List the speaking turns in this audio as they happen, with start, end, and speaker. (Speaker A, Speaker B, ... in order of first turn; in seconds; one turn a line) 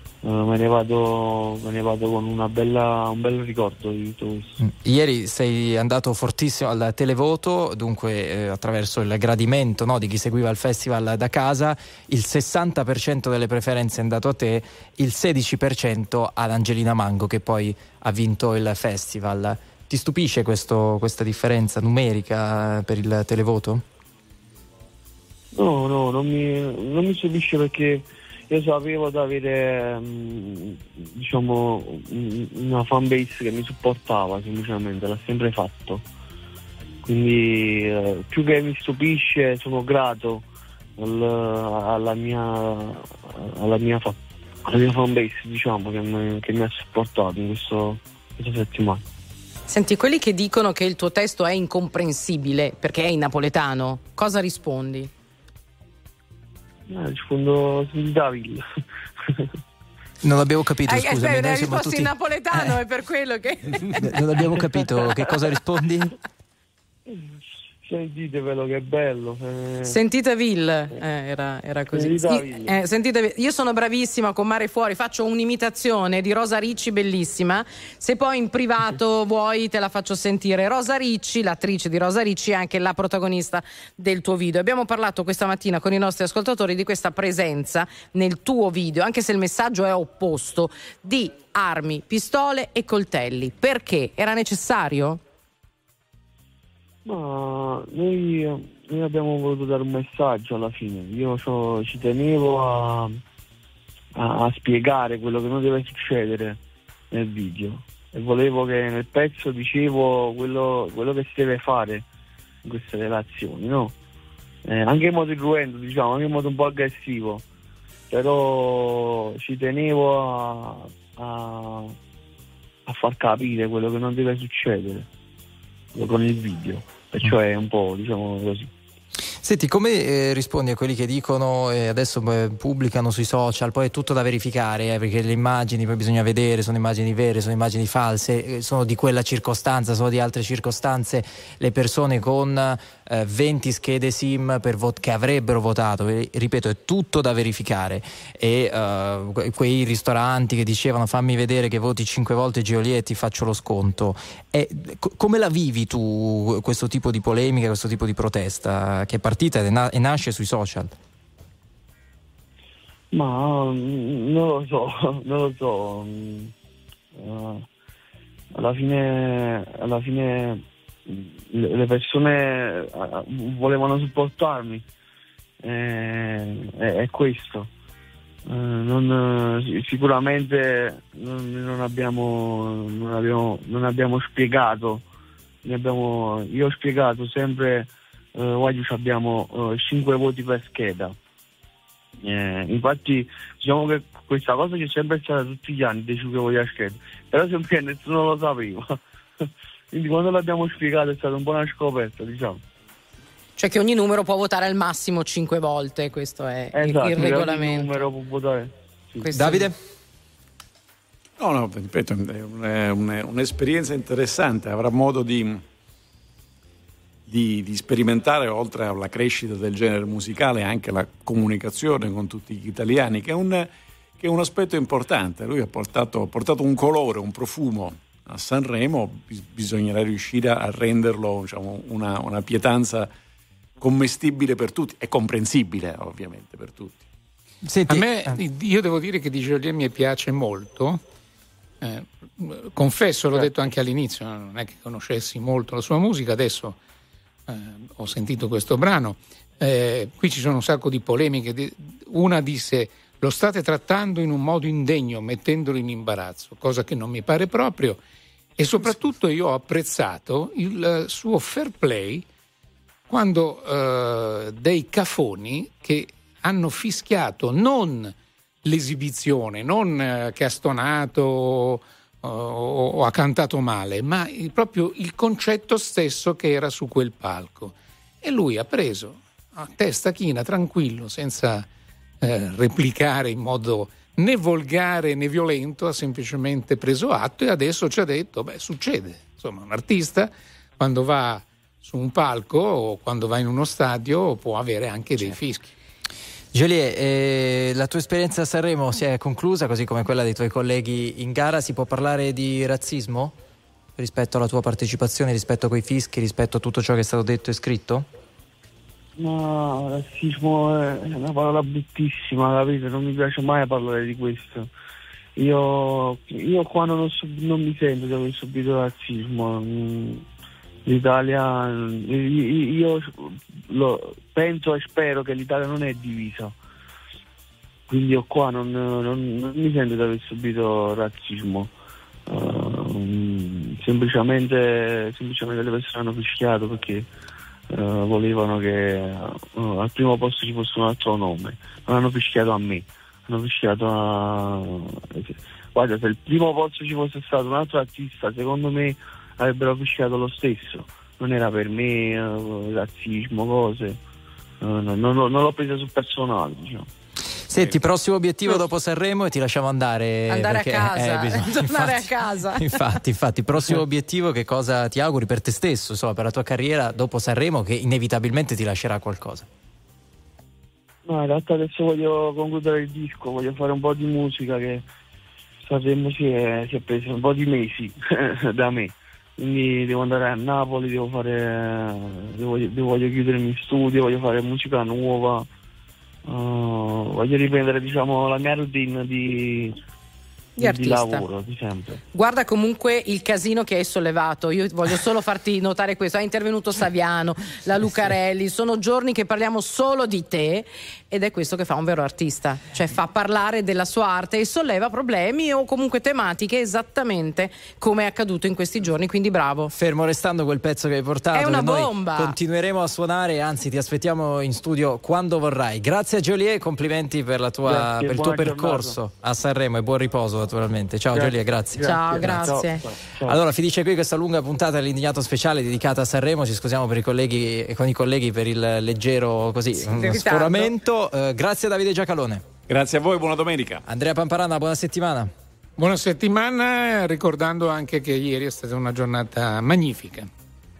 Speaker A: 0.2-4.6
Speaker B: 4.6-23.8
Speaker A: 25.6-36.0
Speaker A: 37.0-40.4
Speaker A: 41.0-49.0
Speaker C: 49.7-55.1
Speaker A: 56.9-58.6
Speaker B: 60.2-62.8
Speaker C: 60.9-64.0
Speaker B: 64.0-66.1
Speaker A: 67.8-70.0
Speaker C: 69.8-95.2
Speaker A: 71.9-72.7
Speaker A: 97.0-103.2
Speaker A: 104.2-106.6
Speaker A: 107.1-112.0
Speaker A: 112.6-113.9
Speaker A: 114.6-117.4
Speaker A: 118.1-122.0
Speaker A: 122.9-125.1
Speaker A: 125.9-128.7
Speaker B: 129.4-160.9
Speaker A: 163.1-166.5
Speaker A: 167.1-167.6
Speaker A: 168.5-174.8
Speaker A: 175.6-177.7
Speaker A: 178.5-185.1
Speaker A: 185.6-191.2
Speaker A: 192.2-199.0
Speaker A: 199.9-202.6
Speaker C: 203.6-208.1
Speaker A: 206.7-209.7
Speaker C: 209.2-209.7
Speaker B: 209.3-209.7
Speaker D: 211.4-215.6
Speaker D: 217.3-233.1
Speaker D: 233.8-237.1
Speaker B: 237.6-238.4
Speaker E: 237.9-241.0
Speaker E: 241.8-246.8
Speaker E: 247.5-258.0
Speaker E: 258.6-262.3
Speaker E: 263.1-281.7
Speaker E: 282.2-295.7
Speaker B: 296.5-303.3
Speaker B: 304.0-308.1
Speaker A: 309.2-314.7
Speaker A: 315.4-320.2
Speaker A: 320.9-326.6
Speaker A: 327.9-331.7
Speaker A: 332.3-337.1
Speaker A: 337.7-354.0
Speaker A: 354.6-356.9
Speaker B: 357.5-369.5
Speaker C: 360.3-362.8
Speaker A: 371.1-374.9
Speaker A: 375.6-385.5
Speaker A: 386.3-389.8
Speaker C: 390.6-391.2
Speaker A: 390.6-392.0
Speaker C: 392.1-409.7
Speaker B: 409.7-422.6
Speaker C: 411.3-412.4
Speaker A: 417.6-419.0
Speaker A: 421.1-423.4
Speaker C: 421.8-422.8
Speaker B: 423.3-432.4
Speaker C: 429.8-430.7
Speaker D: 432.7-433.8
Speaker B: 433.8-435.3
Speaker E: 435.8-440.3